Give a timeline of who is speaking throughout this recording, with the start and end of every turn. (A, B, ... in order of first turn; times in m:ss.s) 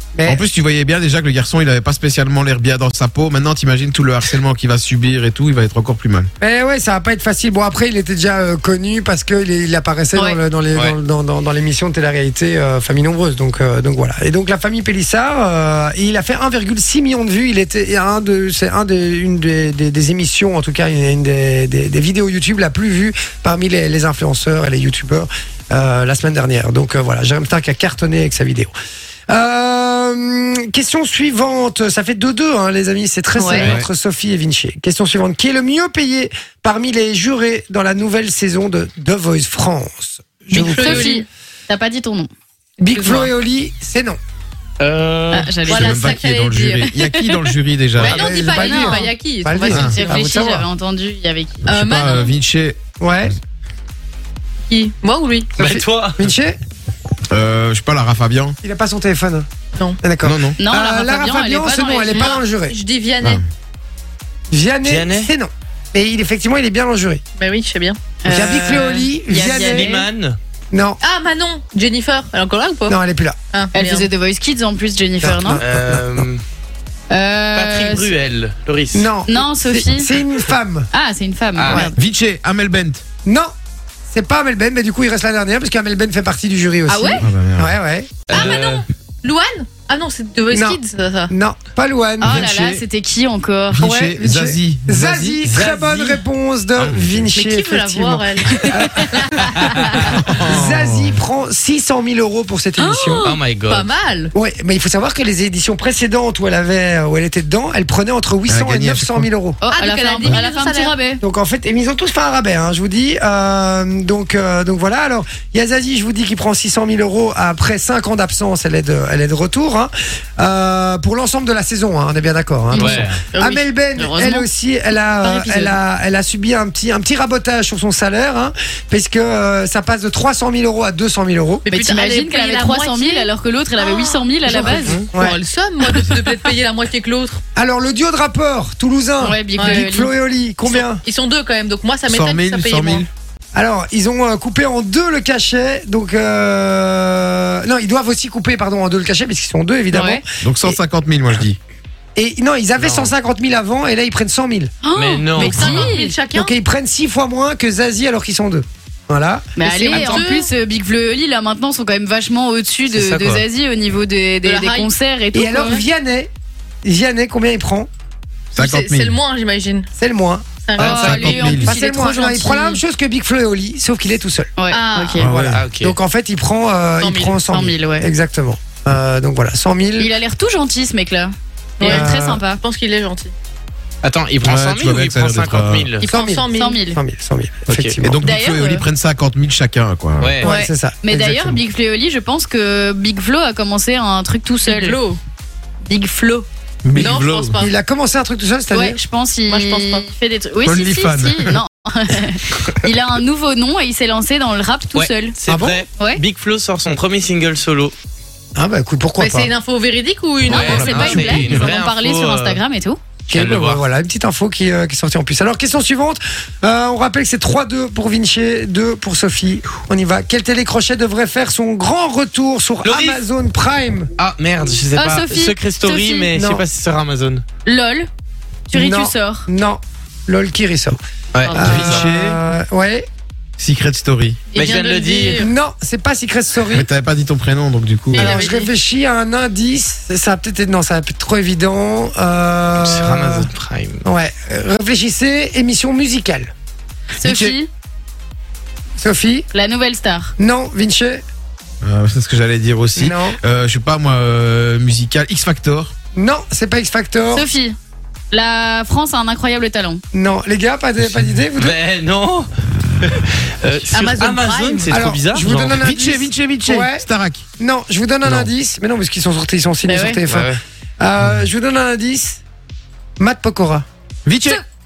0:00.1-0:00.4 A
0:00.2-0:06.3 B
0:06.4-0:28.7 A
0:10.1-0:10.4 C
0:29.3-0:41.2 A
0:33.3-0:33.7 C
0:33.5-0:33.9 B
0:40.5-0:41.2 D
0:40.5-0:42.3 C
0:42.8-0:44.2 A
0:42.8-0:43.3 D
0:44.8-0:45.8 E
0:45.3-0:46.1 C
0:45.6-0:46.9 D
0:45.7-0:48.3 B
0:46.9-0:47.5 C
0:48.0-0:50.3 D
0:48.0-0:50.6 A
0:48.4-0:49.1 C
0:49.8-0:52.3 C
0:51.7-0:52.3 D
0:51.7-0:52.8 B
0:53.0-0:53.3 A
0:54.7-0:55.6 D
0:55.6-0:56.2 E
0:55.6-0:56.6 A
0:57.3-0:58.6 B
0:58.6-0:59.5 A
1:00.0-1:02.8 A
1:00.2-1:00.6 B
1:00.6-1:02.4 C
1:02.1-1:03.4 D
1:04.5-1:07.2 A
1:04.8-1:05.3 E
1:07.4-1:08.0 D
1:08.2-1:10.1 C
1:08.2-1:09.9 A
1:09.4-1:10.4 E
1:10.7-1:11.0 A
1:11.0-1:13.0 D
1:12.9-1:13.4 A
1:13.5-1:14.1 D
1:13.7-1:15.6 C
1:15.2-1:16.2 A
1:15.6-1:16.4 E
1:17.1-1:18.1 C
1:17.5-1:19.1 E
1:18.9-1:20.9 A
1:19.3-1:20.2 C
1:20.9-1:22.0 C
1:21.5-1:21.9 E
1:21.6-1:21.9 A
1:21.9-1:23.0 B
1:23.2-1:23.5 A
1:24.1-1:28.3 A
1:26.9-1:27.3 C
1:27.2-1:27.7 B
1:28.3-1:28.8 E
1:28.3-1:31.3 D
1:30.5-1:32.5 A
1:32.2-1:34.1 C
1:32.2-1:32.8 B
1:33.7-1:35.6 B
1:34.1-1:43.2 A
1:35.5-1:36.2 E
1:36.8-1:37.2 E
1:37.3-1:40.2 D
1:38.6-1:39.1 C
1:39.4-1:39.7 E
1:40.0-1:41.2 B
1:42.8-1:43.4 C
1:43.2-1:43.9 E
1:43.7-1:44.3 D
1:44.3-1:49.6 A
1:48.5-1:49.3 B
1:49.6-1:51.2 C
1:49.7-1:50.9 D
1:51.2-2:11.6 A
2:02.7-2:03.0 C
2:02.8-2:03.3 E
2:03.3-2:03.6 D
2:04.0-2:04.5 C
2:05.2-2:05.8 C
2:11.6-2:17.4 D
2:11.7-2:15.0 C
2:14.5-2:15.4 A
2:14.7-2:15.1 E
2:15.8-2:16.4 C
2:17.6-2:21.0 A
2:19.2-2:20.1 C
2:19.6-2:19.8 D
2:20.6-2:23.1 D
2:22.1-2:23.1 B
2:23.5-2:30.8 A
2:29.9-2:30.2 C
2:30.4-2:31.6 B
2:32.2-2:34.7 A
2:32.8-2:33.1 E
2:34.8-2:36.1 C
2:34.9-2:35.8 E
2:35.3-2:36.6 D
2:35.7-2:40.2 A
2:39.6-2:45.8 C
2:39.6-2:40.5 D
2:42.9-2:43.4 E
2:44.4-2:44.9 D
2:45.3-2:46.3 A
2:46.8-2:47.9 A
2:48.5-2:49.9 D
2:48.6-2:49.2 B
2:49.9-2:50.5 A
2:50.6-2:51.6 D
2:50.8-2:52.8 C
2:50.8-2:51.7 B
2:51.2-2:54.5 A
2:54.6-2:55.2 C
2:54.7-2:55.3 D
2:55.2-2:55.6 B
2:55.2-3:00.1 A
2:55.4-2:55.9 E
2:57.0-2:57.4 D
2:57.5-2:58.1 C
3:00.0-3:02.6 C
3:01.8-3:03.3 D
3:01.8-3:02.4 A
3:04.0-3:06.1 E
3:04.4-3:05.9 B
3:06.0-3:06.8 D
3:06.0-3:08.3 A
3:06.5-3:07.0 C
3:07.7-3:08.0 E
3:08.0-3:10.4 B
3:08.2-3:08.8 C
3:10.2-3:10.5 E
3:10.4-3:11.6 A
3:10.4-3:15.0 C
3:14.6-3:15.2 D
3:15.8-3:16.5 C
3:16.8-3:17.6 B
3:16.9-3:17.7 D
3:17.6-3:19.0 A
3:18.7-3:25.3 C
3:19.5-3:20.1 D
3:20.6-3:21.6 B
3:24.9-3:27.9 E
3:25.5-3:25.8 A
3:28.5-3:29.5 A
3:29.2-3:31.5 D
3:30.4-3:32.6 E
3:30.4-3:33.0 C
3:33.3-3:44.1 A
3:33.3-3:33.8 E
3:42.8-3:43.2 E
3:44.2-3:47.4 E
3:44.9-3:46.3 C
3:46.3-3:46.6 A
3:47.6-3:48.1 C
3:48.7-3:49.5 C
3:48.7-3:53.1 A
3:51.3-3:52.1 E
3:51.5-3:51.9 D
3:51.6-3:52.4 B
3:53.6-3:54.4 B
3:54.5-3:55.5 D
3:54.5-3:55.5 E
3:55.4-3:56.9 A
3:56.7-3:58.4 B
3:58.1-3:58.7 D
3:58.1-4:03.5 A
4:02.8-4:04.0 E
4:04.0-4:06.5 A
4:07.2-4:07.6 B
4:07.2-4:07.7 C
4:09.0-4:09.5 A
4:09.5-4:10.3 C
4:10.4-4:11.2 A
4:11.8-4:15.9 B
4:13.0-4:13.4 A
4:16.1-4:17.5 A
4:17.3-4:17.8 C
4:18.3-4:20.0 C
4:20.1-4:21.8 A
4:21.6-4:22.5 E
4:23.0-4:25.8 E
4:23.9-4:25.0 D
4:24.9-4:27.0 A
4:25.7-4:27.4 B
4:27.6-4:32.4 A
4:28.2-4:28.5 E
4:29.9-4:30.2 D
4:30.2-4:30.6 E
4:33.2-4:33.8 A
4:34.2-4:34.6 B